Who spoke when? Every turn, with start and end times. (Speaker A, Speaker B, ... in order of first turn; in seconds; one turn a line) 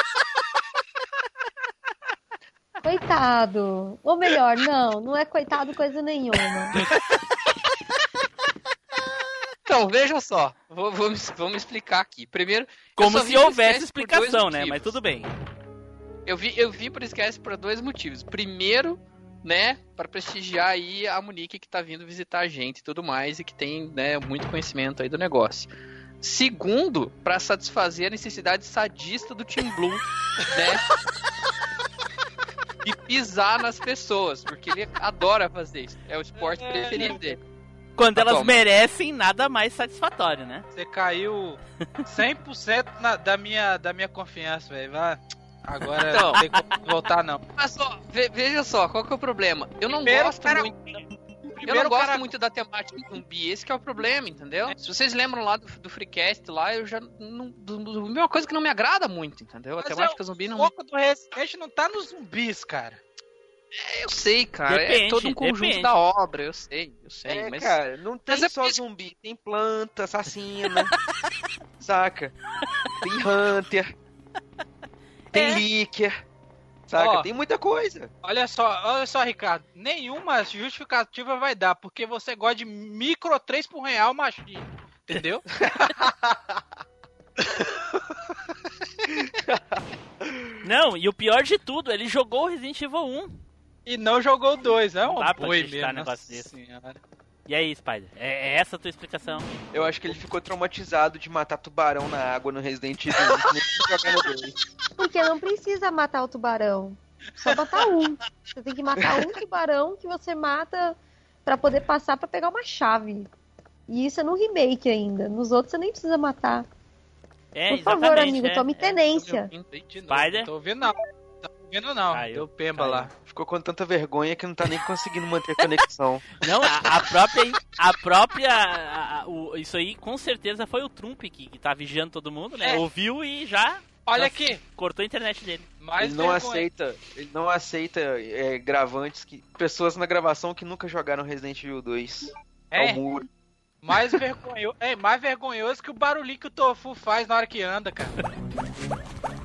Speaker A: 2.8-6.8
Speaker B: 9.7-15.0
Speaker C: 13.0-15.3
Speaker B: 16.3-25.7
Speaker B: 26.2-30.9
Speaker B: 32.8-37.4
Speaker D: 36.4-37.3
Speaker C: 38.0-40.7
Speaker B: 38.2-38.5
Speaker D: 40.7-47.4
Speaker B: 46.0-46.5
Speaker B: 47.6-50.8
Speaker D: 49.9-51.0
Speaker D: 51.6-52.3
Speaker B: 51.6-60.7
Speaker D: 59.8-63.0
Speaker B: 63.8-67.8
Speaker C: 64.7-65.9
Speaker E: 67.3-70.9
Speaker E: 71.8-72.3
Speaker E: 73.0-73.9
Speaker E: 75.3-76.2
Speaker D: 75.4-75.6
Speaker E: 76.9-78.1
Speaker D: 77.0-77.3
Speaker D: 78.2-85.5
Speaker E: 85.7-86.3
Speaker E: 89.3-90.5
Speaker C: 90.6-93.4
Speaker D: 93.9-97.0
Speaker C: 95.0-96.5
Speaker C: 97.5-99.5
Speaker E: 99.7-104.5
Speaker D: 103.2-104.3
Speaker A: 105.0-113.3
Speaker E: 109.0-109.3
Speaker A: 113.9-116.7
Speaker C: 117.5-119.0
Speaker A: 117.7-119.5
Speaker B: 119.1-120.4
Speaker D: 120.0-123.1
Speaker C: 120.1-120.5
Speaker C: 122.1-123.1
Speaker E: 123.3-126.3
Speaker C: 126.4-135.7
Speaker D: 134.1-134.6
Speaker D: 135.8-136.7
Speaker E: 136.0-143.3
Speaker D: 142.7-143.0
Speaker D: 143.8-148.1